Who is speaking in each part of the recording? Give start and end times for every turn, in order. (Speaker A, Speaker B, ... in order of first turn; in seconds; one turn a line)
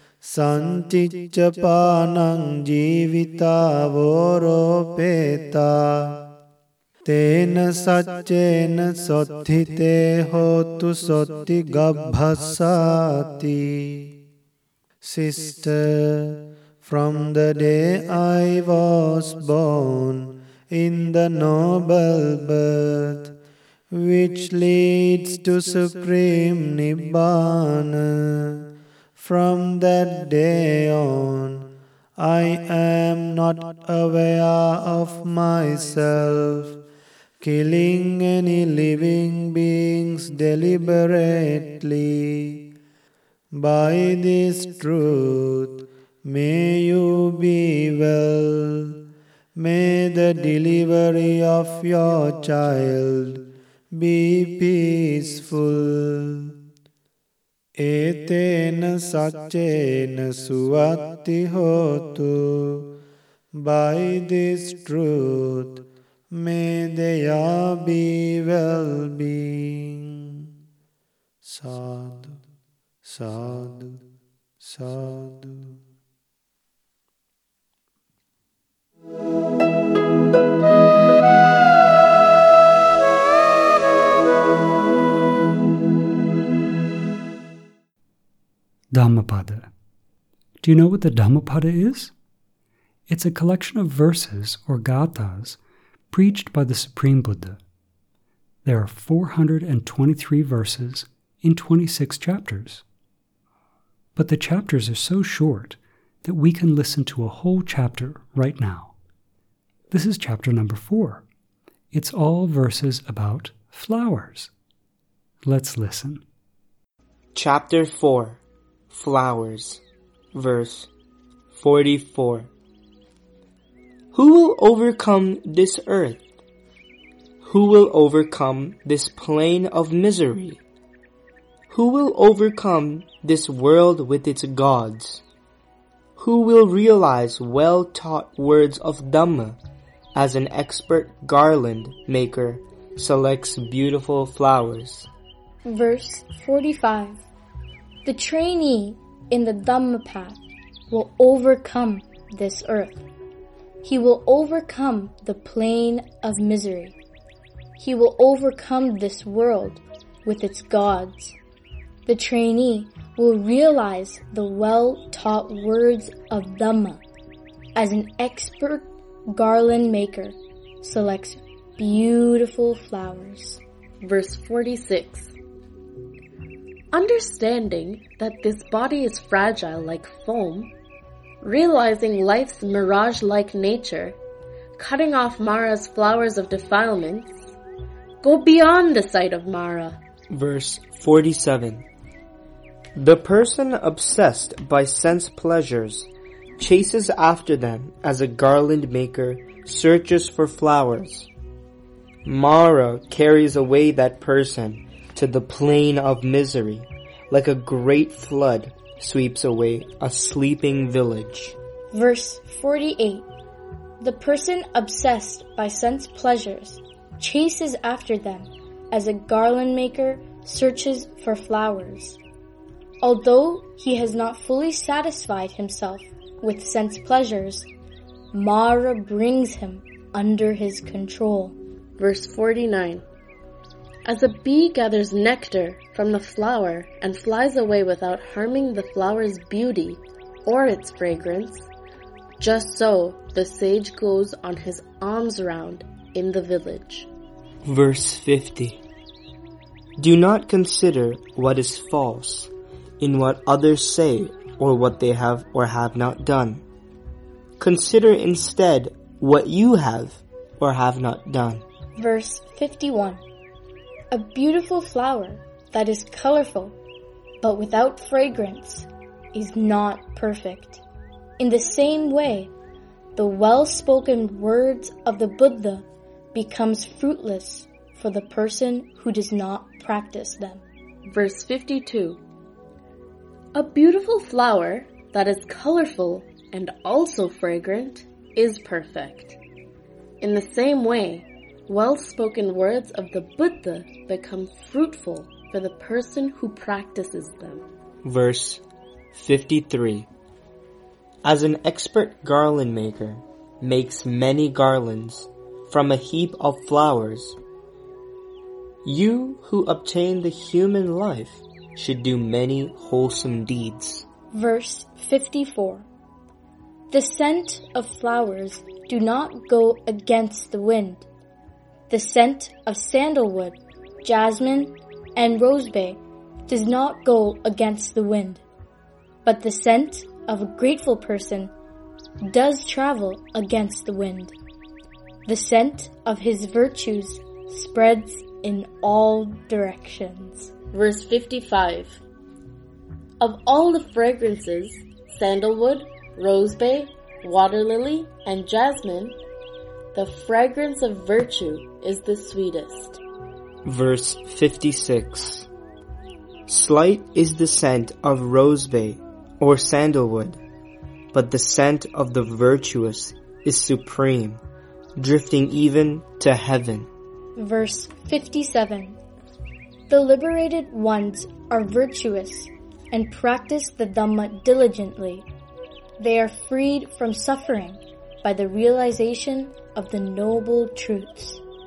Speaker A: 0.2-6.1
Speaker A: 7.0-14.1
Speaker A: 15.0-23.3
Speaker A: 23.9-36.8
Speaker A: 37.4-42.6
Speaker A: 43.5-49.0
Speaker A: 49.6-53.4
Speaker A: 53.9-56.5
Speaker A: 57.8-62.9
Speaker A: 63.5-70.5
Speaker A: 71.4-72.4
Speaker A: 73.0-74.0
Speaker A: 74.6-75.8
Speaker B: 88.9-89.7
Speaker B: 90.6-92.1
Speaker B: 93.1-95.6
Speaker B: 96.1-97.6
Speaker B: 98.6-102.8
Speaker B: 104.2-108.9
Speaker B: 109.9-111.2
Speaker B: 111.9-114.5
Speaker B: 115.4-116.2
Speaker C: 117.3-119.8
Speaker C: 120.3-120.9
Speaker C: 121.5-122.5
Speaker C: 124.1-126.2
Speaker C: 127.4-130.6
Speaker C: 131.7-135.2
Speaker C: 136.2-139.6
Speaker C: 140.1-145.1
Speaker D: 145.6-147.2
Speaker D: 148.0-153.0
Speaker D: 153.8-156.9
Speaker D: 157.8-161.3
Speaker D: 162.1-167.0
Speaker D: 167.8-173.6
Speaker E: 174.0-175.3
Speaker E: 176.9-180.7
Speaker E: 181.4-184.2
Speaker E: 184.8-187.5
Speaker E: 188.2-190.0
Speaker C: 190.3-191.8
Speaker C: 192.9-201.3
Speaker C: 202.2-211.6
Speaker D: 211.9-213.2
Speaker D: 214.0-222.2
Speaker D: 223.0-227.7
Speaker D: 228.3-231.6
Speaker E: 232.0-233.0
Speaker E: 234.1-241.7
Speaker E: 242.4-247.1
Speaker C: 247.6-248.8
Speaker C: 250.0-256.6
Speaker C: 257.6-261.6
Speaker D: 262.0-263.2
Speaker D: 264.1-266.8
Speaker D: 267.4-270.8
Speaker D: 271.4-272.5
Speaker D: 273.1-280.6
Speaker E: 281.1-282.2
Speaker E: 283.5-289.4
Speaker E: 290.2-297.6
Speaker C: 298.0-298.6
Speaker C: 299.1-300.1
Speaker C: 301.2-307.4
Speaker C: 308.8-314.1
Speaker D: 314.3-315.9
Speaker D: 316.9-321.1
Speaker D: 321.9-328.4
Speaker D: 329.2-331.5
Speaker D: 332.2-334.3
Speaker D: 335.2-340.5
Speaker E: 340.7-342.0
Speaker E: 343.2-349.2
Speaker E: 349.9-353.0
Speaker C: 353.6-355.5
Speaker C: 356.5-360.4
Speaker C: 361.1-364.4
Speaker C: 364.9-366.9
Speaker D: 367.4-369.0
Speaker D: 369.9-375.2
Speaker D: 376.0-381.4